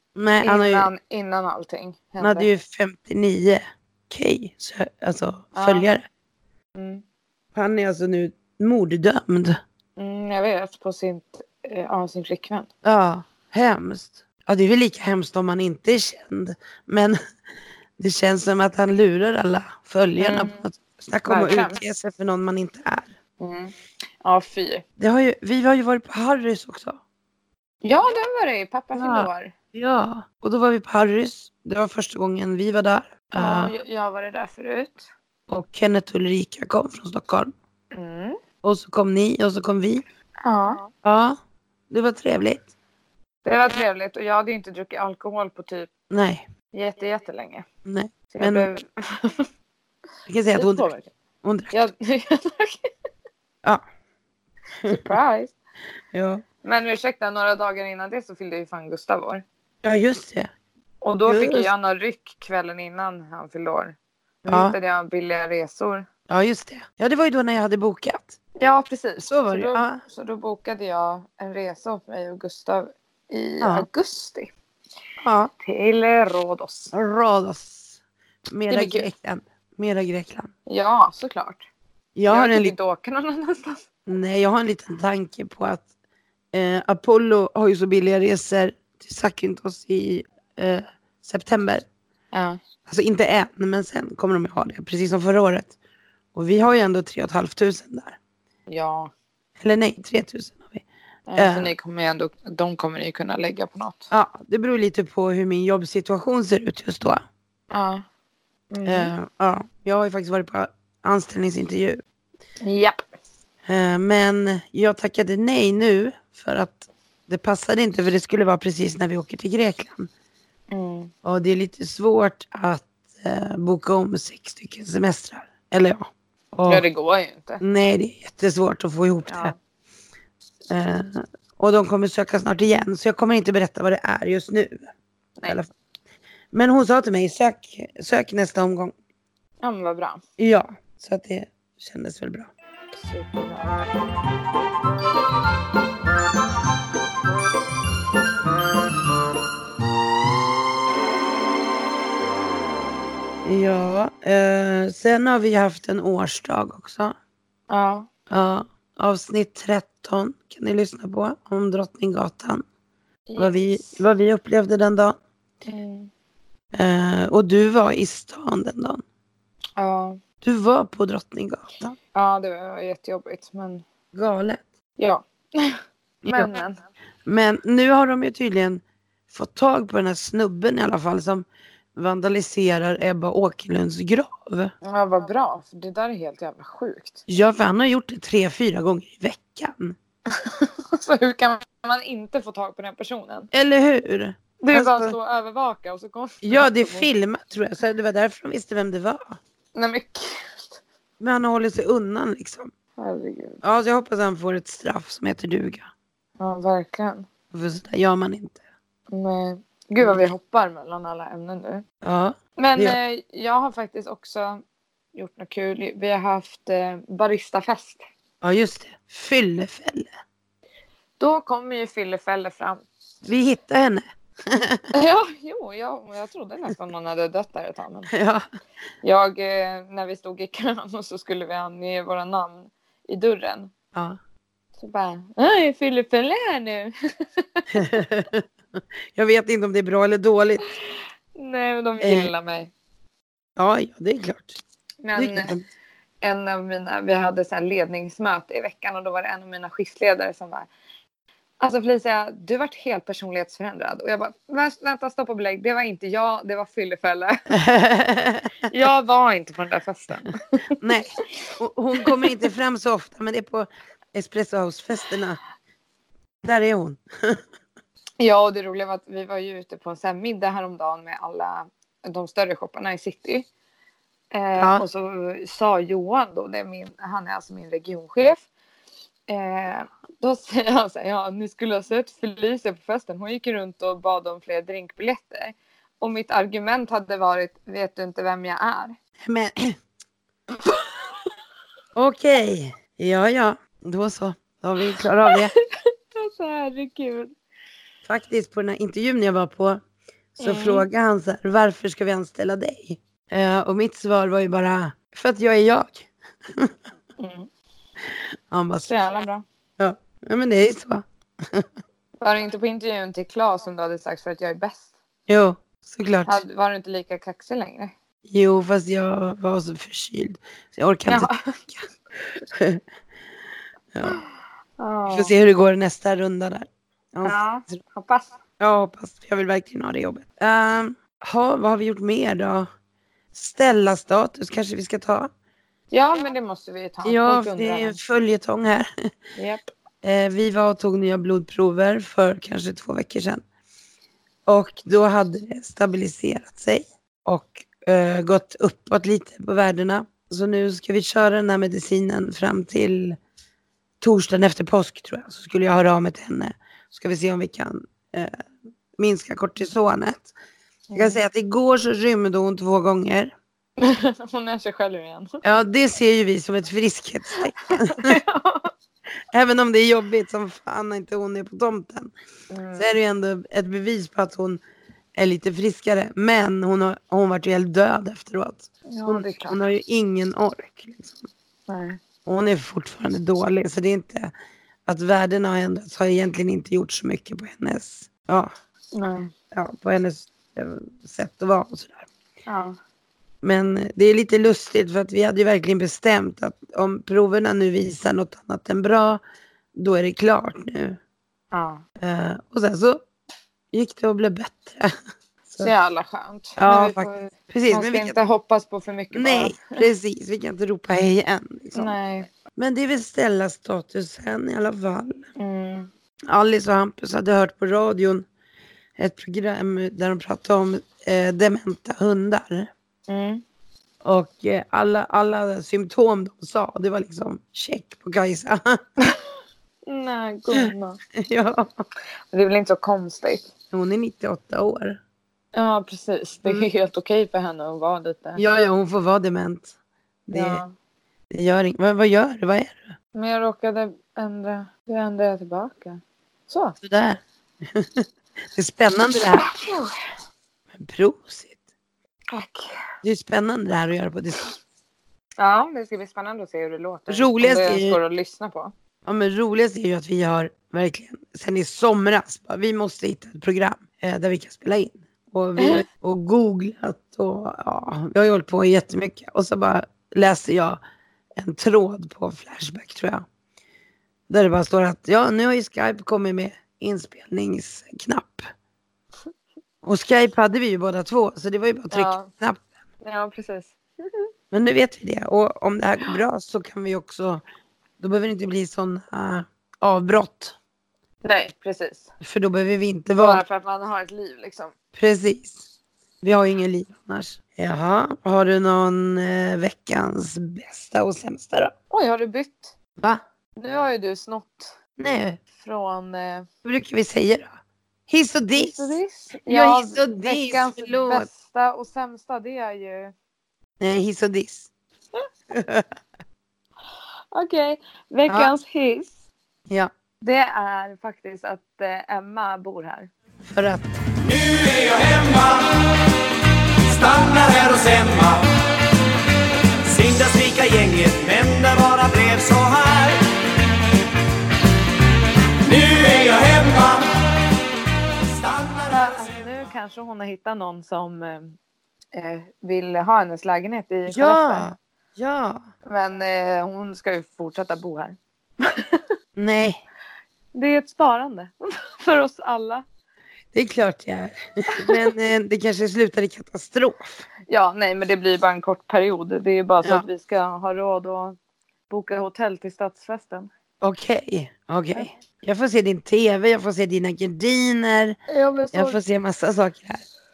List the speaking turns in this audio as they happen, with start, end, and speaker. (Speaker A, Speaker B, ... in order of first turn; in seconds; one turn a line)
Speaker A: 0.2-0.9
Speaker B: 0.4-2.5
Speaker A: 2.2-6.1
Speaker B: 5.5-5.9
Speaker B: 6.8-7.0
Speaker A: 7.5-9.6
Speaker B: 10.0-12.7
Speaker A: 12.8-17.2
Speaker A: 18.0-23.1
Speaker B: 20.2-20.6
Speaker B: 21.3-21.8
Speaker B: 23.4-24.8
Speaker A: 25.0-27.0
Speaker B: 27.8-29.5
Speaker A: 28.9-33.7
Speaker B: 33.4-35.1
Speaker A: 35.5-37.5
Speaker B: 37.9-38.4
Speaker A: 38.6-40.0
Speaker B: 40.4-40.8
Speaker A: 41.0-41.4
Speaker A: 41.9-42.7
Speaker B: 43.5-45.9
Speaker A: 46.1-46.5
Speaker B: 46.7-47.6
Speaker A: 47.9-48.7
Speaker B: 48.3-49.5
Speaker A: 50.3-50.9
Speaker B: 50.5-51.1
Speaker A: 51.4-51.8
Speaker B: 51.7-52.9
Speaker A: 54.8-55.2
Speaker B: 54.9-55.5
Speaker A: 56.1-56.4
Speaker B: 56.6-59.4
Speaker A: 59.8-60.5
Speaker B: 61.0-64.0
Speaker A: 61.3-61.7
Speaker A: 64.5-64.8
Speaker B: 64.5-66.1
Speaker A: 66.3-68.4
Speaker B: 68.6-74.5
Speaker A: 69.2-70.0
Speaker A: 73.6-73.9
Speaker A: 75.2-75.5
Speaker B: 75.6-76.9
Speaker A: 76.9-80.5
Speaker B: 78.7-79.1
Speaker B: 80.7-81.7
Speaker A: 82.2-82.8
Speaker B: 82.3-83.8
Speaker A: 84.1-85.9
Speaker A: 86.5-91.9
Speaker B: 92.3-92.6
Speaker A: 92.9-95.8
Speaker A: 96.3-98.2
Speaker B: 98.7-99.1
Speaker A: 99.6-100.8
Speaker B: 101.3-104.1
Speaker A: 101.4-101.7
Speaker A: 104.1-107.2
Speaker B: 107.7-108.0
Speaker B: 108.7-109.1
Speaker A: 108.8-112.0
Speaker B: 112.6-113.0
Speaker A: 113.7-120.1
Speaker B: 120.7-121.1
Speaker A: 121.2-126.8
Speaker B: 126.7-127.6
Speaker A: 127.6-129.5
Speaker B: 129.3-129.6
Speaker A: 130.7-134.9
Speaker A: 136.5-138.9
Speaker B: 139.6-140.2
Speaker A: 140.4-142.5
Speaker B: 142.9-143.8
Speaker A: 153.4-157.2
Speaker B: 157.7-158.1
Speaker A: 158.3-162.7
Speaker B: 163.3-164.0
Speaker A: 163.4-165.2
Speaker B: 165.7-166.1
Speaker A: 166.7-169.0
Speaker B: 169.8-170.2
Speaker A: 170.4-172.0
Speaker B: 172.1-173.8
Speaker A: 174.1-174.6
Speaker B: 175.0-175.8
Speaker A: 176.2-176.5
Speaker B: 176.3-176.8
Speaker A: 177.3-184.7
Speaker B: 184.8-187.2
Speaker A: 187.3-190.0
Speaker B: 190.3-193.5
Speaker A: 193.5-195.2
Speaker B: 194.6-197.1
Speaker A: 196.4-199.4
Speaker B: 199.8-200.8
Speaker A: 201.2-202.7
Speaker B: 203.0-203.6
Speaker A: 203.6-205.9
Speaker B: 206.4-207.3
Speaker A: 207.5-208.6
Speaker B: 209.1-211.8
Speaker A: 212.0-213.0
Speaker B: 212.6-214.6
Speaker B: 215.2-218.0
Speaker A: 218.4-220.1
Speaker B: 221.2-222.8
Speaker A: 223.2-224.8
Speaker B: 224.9-228.1
Speaker A: 228.1-228.4
Speaker B: 229.0-233.7
Speaker B: 234.8-237.7
Speaker A: 237.7-240.6
Speaker B: 241.4-242.7
Speaker A: 242.0-242.3
Speaker A: 243.6-244.6
Speaker B: 245.0-245.6
Speaker A: 245.2-245.7
Speaker B: 246.2-250.7
Speaker B: 251.6-257.5
Speaker A: 257.5-258.7
Speaker B: 258.7-260.7
Speaker A: 260.8-265.4
Speaker A: 266.4-267.4
Speaker B: 268.2-273.5
Speaker B: 274.3-278.5
Speaker A: 274.6-274.9
Speaker B: 279.3-288.9
Speaker A: 289.3-289.8
Speaker B: 290.6-291.1
Speaker A: 291.9-295.5
Speaker B: 296.2-297.3
Speaker A: 298.1-299.8
Speaker A: 300.4-306.7
Speaker B: 300.4-300.9
Speaker B: 307.2-307.5
Speaker A: 308.2-308.9
Speaker B: 308.8-309.4
Speaker A: 309.8-311.7
Speaker B: 312.2-314.9
Speaker A: 315.3-316.4
Speaker B: 316.2-317.9
Speaker A: 318.3-321.8
Speaker B: 321.1-321.6
Speaker A: 322.5-322.8
Speaker A: 323.9-324.2
Speaker B: 324.8-325.3
Speaker A: 325.1-327.8
Speaker B: 327.2-328.3
Speaker A: 328.6-332.7
Speaker A: 333.3-335.3
Speaker B: 335.9-338.0
Speaker A: 337.0-338.9
Speaker B: 339.4-339.6
Speaker A: 340.0-343.4
Speaker A: 344.5-353.2
Speaker A: 354.0-358.4
Speaker A: 359.0-360.3
Speaker B: 360.9-361.2
Speaker A: 361.0-363.3
Speaker B: 363.8-365.4
Speaker A: 365.4-368.2
Speaker B: 367.6-368.7
Speaker A: 369.3-372.1
Speaker B: 372.5-372.9
Speaker A: 372.8-374.6
Speaker A: 375.2-381.3
Speaker B: 378.9-379.6
Speaker B: 381.7-382.0
Speaker A: 382.2-384.3
Speaker A: 384.9-388.5
Speaker B: 388.9-389.3
Speaker A: 389.5-392.1
Speaker B: 392.5-392.8
Speaker A: 393.4-399.2
Speaker A: 399.8-401.0
Speaker B: 401.5-401.8
Speaker A: 402.0-403.0
Speaker A: 403.7-404.9
Speaker B: 405.6-409.9
Speaker A: 406.6-408.2
Speaker A: 409.1-412.0
Speaker B: 411.8-412.3
Speaker A: 412.6-415.3
Speaker B: 415.4-415.9
Speaker A: 416.3-418.3
Speaker A: 419.0-422.7
Speaker B: 423.1-423.4
Speaker A: 424.0-428.8
Speaker B: 429.9-431.0
Speaker A: 430.5-431.8
Speaker B: 432.3-433.5
Speaker A: 433.7-435.0
Speaker B: 435.5-438.4
Speaker A: 438.4-439.7
Speaker A: 440.3-440.6
Speaker B: 440.3-440.7
Speaker A: 441.3-442.9
Speaker B: 443.1-446.8
Speaker A: 446.8-449.5
Speaker B: 449.2-449.9
Speaker A: 450.8-451.6
Speaker B: 452.3-452.8
Speaker A: 453.0-454.5
Speaker B: 455.4-458.7
Speaker A: 457.1-458.0
Speaker A: 459.1-470.8
Speaker A: 471.4-473.3
Speaker A: 474.3-478.4
Speaker A: 479.8-482.6
Speaker B: 481.9-482.3
Speaker B: 483.0-484.2
Speaker A: 484.5-487.4
Speaker A: 488.0-490.6
Speaker B: 491.2-492.1
Speaker A: 492.2-493.4
Speaker B: 493.2-494.7
Speaker A: 494.9-495.6
Speaker A: 496.2-501.7
Speaker B: 501.9-502.8
Speaker B: 503.6-504.8
Speaker A: 505.0-505.4
Speaker B: 505.6-506.5
Speaker A: 506.6-507.6
Speaker A: 508.1-511.3
Speaker B: 508.6-513.1
Speaker A: 513.8-514.7
Speaker A: 515.5-515.9
Speaker B: 517.3-519.2
Speaker A: 518.3-518.5
Speaker B: 520.2-523.1
Speaker A: 523.5-524.0
Speaker C: 524.3-525.7
Speaker C: 526.9-528.5
Speaker C: 529.9-533.2
Speaker C: 535.7-537.1
Speaker C: 538.4-538.8
Speaker B: 538.9-541.6
Speaker B: 542.1-544.7
Speaker A: 544.1-545.6
Speaker B: 545.9-549.0
Speaker A: 549.4-549.8
Speaker B: 550.5-552.8
Speaker A: 553.5-557.2
Speaker B: 554.7-555.1
Speaker B: 557.5-561.4
Speaker B: 561.9-563.5
Speaker A: 563.8-568.2
Speaker B: 568.3-569.0
Speaker A: 568.7-570.0